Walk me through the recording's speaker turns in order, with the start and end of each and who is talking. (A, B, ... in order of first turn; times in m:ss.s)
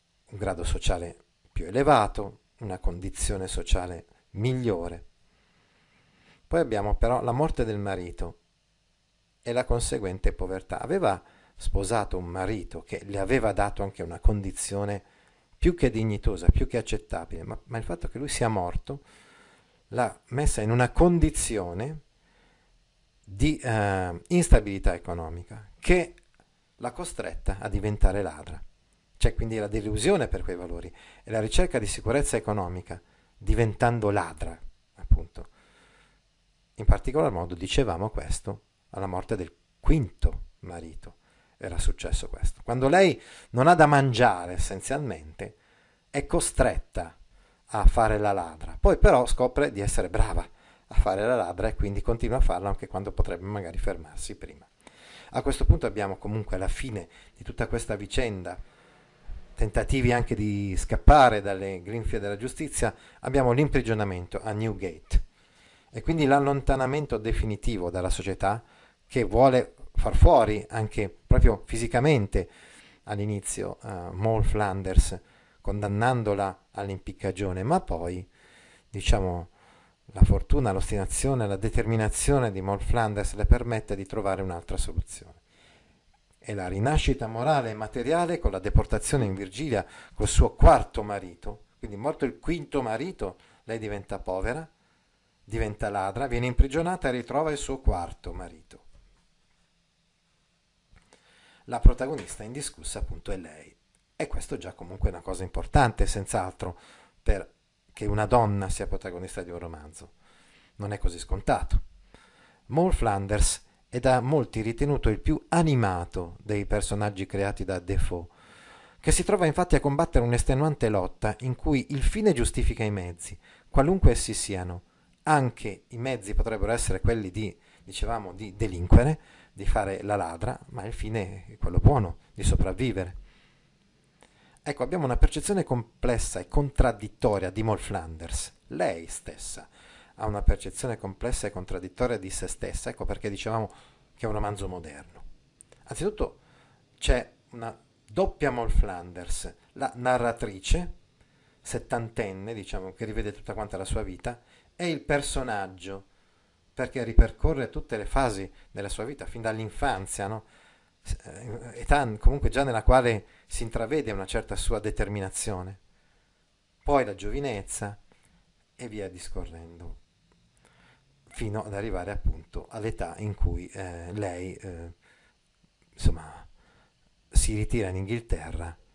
0:00.3-0:05.0 A
0:06.5-0:08.4 A
0:09.4-0:15.0 A
0:15.6-0:19.0 A
0:19.9-0:22.0 A
0:23.3-0:26.2 A
0:26.8-0:28.6 A
0:29.2-0:35.5 A
0:36.8-0:45.6 A
0:46.1-0:47.2 A
0:47.7-0:54.7 A
0:55.3-0:58.6 A
0:59.6-1:05.2 A
1:05.9-1:12.5 A
1:13.1-1:18.3 A
1:18.9-1:19.5 A
1:20.1-1:25.4 A
1:26.4-1:34.7 A
1:35.5-1:38.8 A
1:41.7-1:50.1 A
1:50.8-1:51.8 A
1:52.7-1:58.3 A
1:59.0-2:13.2 A
2:14.6-2:25.2 A
2:25.9-2:26.4 A
2:27.0-2:30.9 A
2:31.6-2:36.0 A
2:36.8-2:40.4 A
2:41.0-2:45.8 A
2:46.8-2:48.0 A
2:48.8-2:50.0 A
2:51.3-2:54.9 A
2:56.0-2:56.5 A
2:57.3-2:58.8 A